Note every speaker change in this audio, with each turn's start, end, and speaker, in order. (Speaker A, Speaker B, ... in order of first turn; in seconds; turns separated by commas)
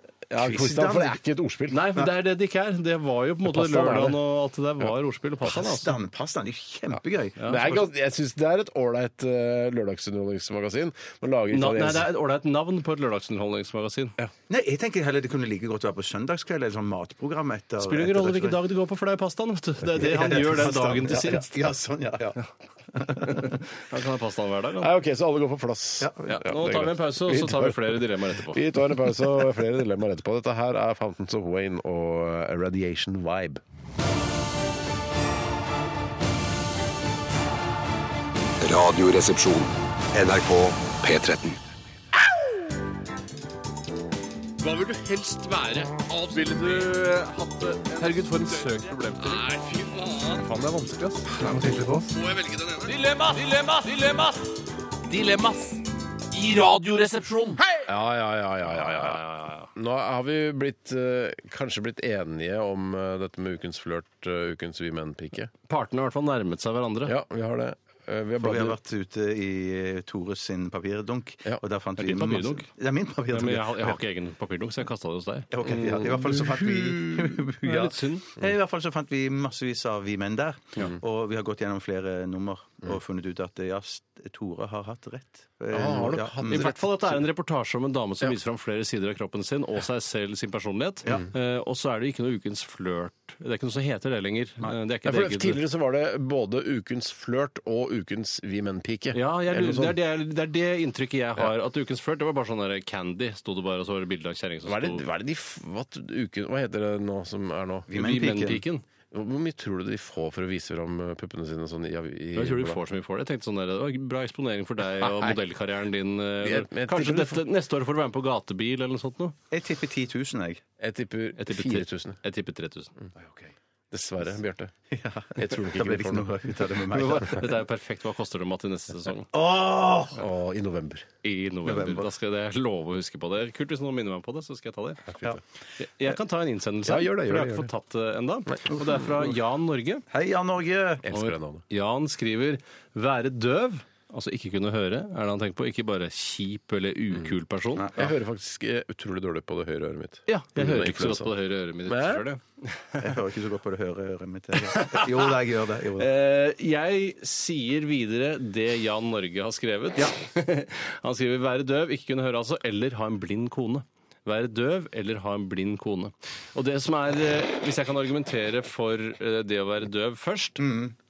Speaker A: 0.3-2.0, Speaker B: 0.4-1.2, Speaker C: 1.7-5.9, Speaker A: 3.4-4.2, Speaker B: 5.4-7.4, Speaker C: 7.4-7.8, Speaker A: 7.4-12.1, Speaker C: 11.5-14.1, Speaker B: 14.5-18.6, Speaker C: 17.8-21.5, Speaker B: 20.0-22.4, Speaker B: 22.9-23.6, Speaker C: 23.2-24.9, Speaker A: 24.8-33.6, Speaker B: 26.0-26.4, Speaker C: 26.3-28.8, Speaker D: 38.6-41.6, Speaker E: 44.7-47.3, Speaker C: 46.3-49.4, Speaker E: 48.0-54.4, Speaker E: 55.1-55.8, Speaker E: 56.3-57.6, Speaker A: 57.8-59.2, Speaker C: 58.6-59.7, Speaker A: 59.7-65.5, Speaker C: 65.7-67.2, Speaker A: 67.0-68.8, Speaker B: 68.4-74.0, Speaker C: 72.0-72.7, Speaker C: 73.3-78.2, Speaker B: 75.5-86.7, Speaker A: 75.6-76.5, Speaker A: 85.7-87.1, Speaker C: 86.5-95.6, Speaker A: 95.0-100.0, Speaker C: 99.1-105.0, Speaker A: 104.7-107.9, Speaker B: 107.9-108.6, Speaker C: 107.9-108.8, Speaker A: 109.1-112.8, Speaker C: 112.3-119.3, Speaker A: 115.0-115.4, Speaker A: 116.4-117.4, Speaker B: 119.5-120.6, Speaker A: 120.8-122.2, Speaker C: 121.4-122.9, Speaker B: 123.2-123.5, Speaker A: 123.9-124.7, Speaker B: 124.9-127.5, Speaker A: 125.3-126.5, Speaker C: 126.9-129.3, Speaker B: 129.3-130.2, Speaker A: 130.1-131.1, Speaker C: 131.2-135.2, Speaker B: 131.6-132.1, Speaker C: 135.8-140.0, Speaker A: 136.8-137.7, Speaker B: 140.1-141.0, Speaker A: 141.0-141.6, Speaker C: 141.1-147.9, Speaker B: 147.8-148.1, Speaker A: 147.9-151.3, Speaker C: 150.3-153.1, Speaker A: 151.8-152.2, Speaker B: 153.0-156.1, Speaker C: 154.7-155.3, Speaker C: 155.9-170.6, Speaker B: 170.6-170.9